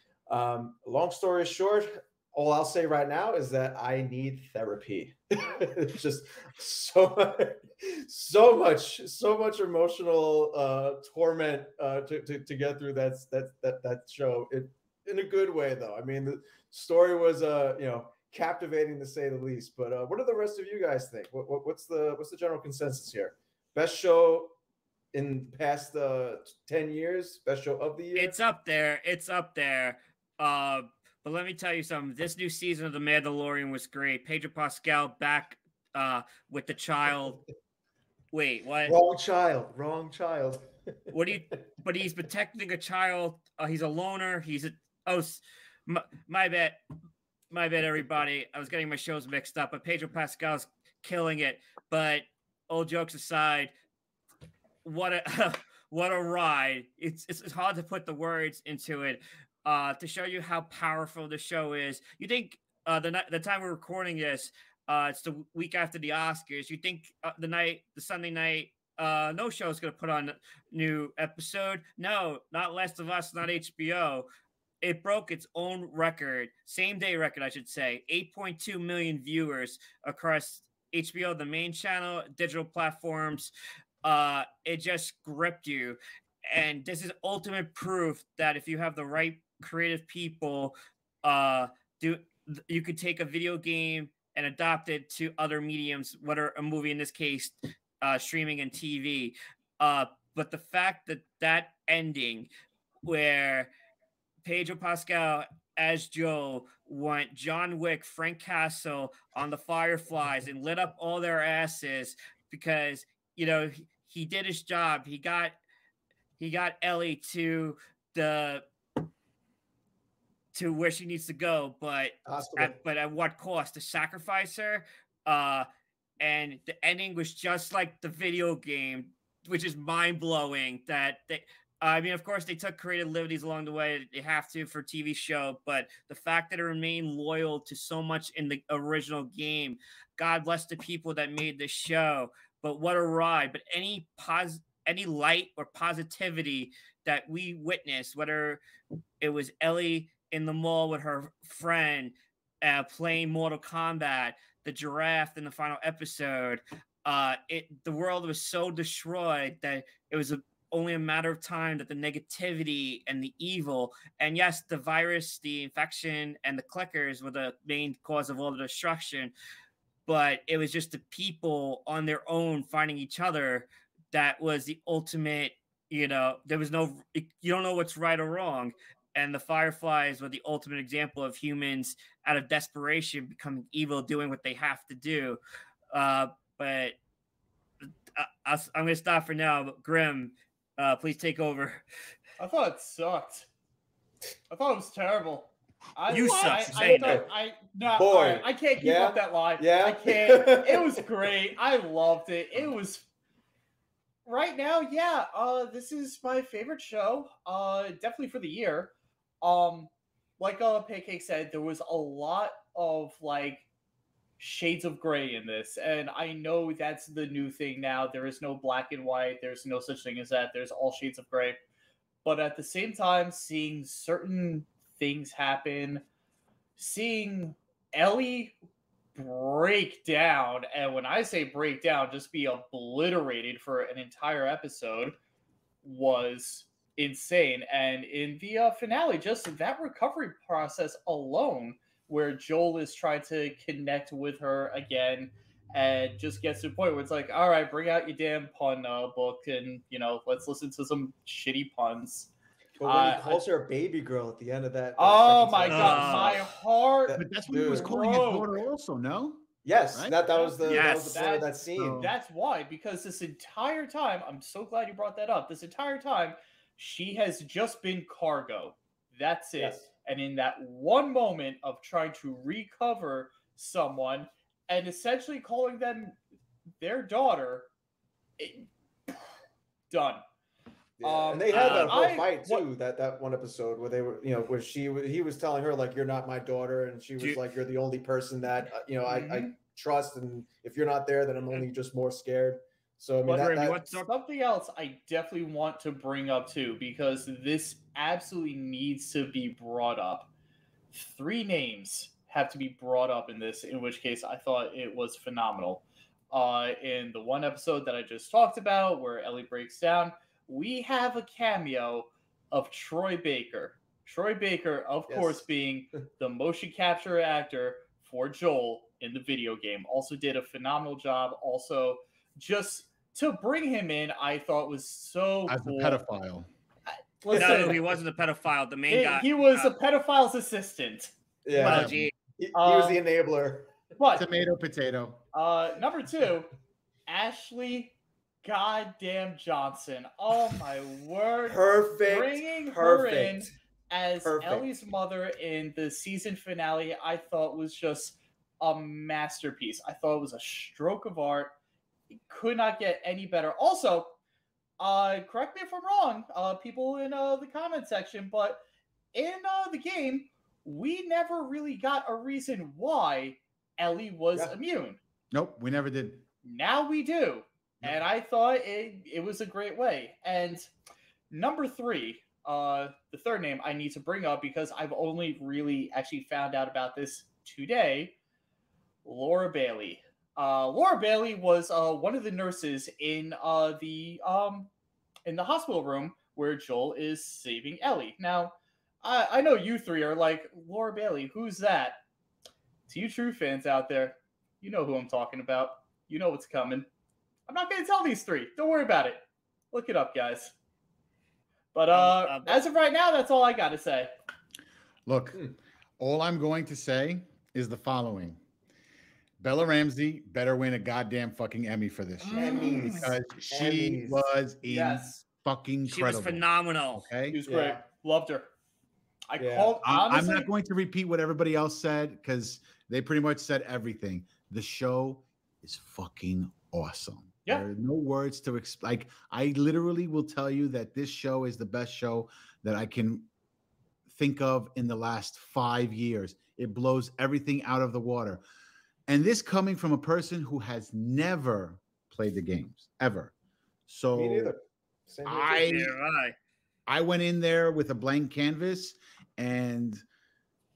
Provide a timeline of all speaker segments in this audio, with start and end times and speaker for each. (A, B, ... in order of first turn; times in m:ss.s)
0:00.3-0:24.5 A
0:25.1-0:28.4 A
0:28.1-0:37.4 B
0:38.3-0:39.0 B
0:38.9-0:41.4 A
0:41.1-0:46.8 B
0:47.5-0:53.7 B
0:54.8-1:14.3 B
1:14.8-1:23.5 B
1:24.0-1:42.5 B
1:43.0-1:43.7 B
1:44.4-1:55.6 B
1:56.4-1:58.6 B
2:00.5-2:05.6 B
2:02.3-2:02.8 A
2:06.2-2:28.6 B
2:29.2-2:49.3 B
2:50.1-3:05.4 B
3:05.9-3:07.0 B
3:08.2-3:11.8 B
3:12.4-3:13.5 C
3:14.5-3:23.1 C
3:16.1-3:17.2 B
3:16.5-3:17.3 A
3:18.0-3:20.9 A
3:24.2-3:33.7 C
3:34.4-3:41.6 C
3:42.2-3:46.0 C
3:46.8-3:48.5 C
3:49.1-3:55.2 C
3:55.8-4:12.3 C
4:12.8-4:16.4 A
4:12.8-4:13.4 C
4:15.0-4:18.6 C
4:15.6-4:16.4 B
4:17.1-4:17.9 A
4:17.1-4:20.2 D
4:19.6-4:22.0 A
4:20.3-4:36.2 C
4:20.6-4:21.2 B
4:21.8-4:22.1 D
4:29.6-4:29.8 A
4:36.8-4:37.7 C
4:38.4-4:38.7 C
4:39.9-4:40.2 C
4:41.0-4:53.8 A
4:41.0-4:42.6 C
4:41.5-4:42.0 B
4:49.1-4:49.5 C
4:53.2-5:00.3 C
4:53.5-4:54.1 B
5:00.9-5:26.0 C
5:15.1-5:15.4 A
5:25.5-5:26.5 D
5:27.2-5:27.9 C
5:27.3-5:27.8 A
5:27.3-5:29.7 B
5:28.9-5:31.1 C
5:31.4-5:33.8 A
5:31.6-5:32.1 B
5:31.6-5:32.1 D
5:32.5-5:33.0 C
5:34.0-5:34.3 C
5:34.1-5:35.2 D
5:35.3-5:36.5 C
5:37.1-5:51.5 C
5:41.5-5:43.4 A
5:44.2-5:44.7 A
5:52.3-5:54.2 C
5:54.8-5:58.6 C
5:59.1-6:05.0 C
6:05.3-6:06.2 D
6:06.4-6:10.7 C
6:11.3-6:18.1 C
6:19.0-6:24.7 C
6:25.2-6:32.0 C
6:32.9-6:36.9 C
6:37.5-6:40.5 C
6:41.7-6:44.1 C
6:41.9-6:42.6 B
6:45.1-6:45.4 D
6:46.0-6:48.4 D
6:49.4-6:57.4 D
6:52.2-6:53.1 C
6:52.3-6:54.3 A
6:54.6-6:55.2 C
6:55.8-6:57.1 B
6:57.3-6:58.5 C
6:57.4-6:57.8 A
6:59.3-7:00.5 C
6:59.4-6:59.8 A
6:59.8-7:13.3 D
7:14.1-7:18.4 D
7:19.1-7:23.3 D
7:23.9-7:24.5 D
7:24.1-7:25.9 A
7:25.2-7:25.9 D
7:25.6-7:26.3 B
7:26.9-7:30.0 D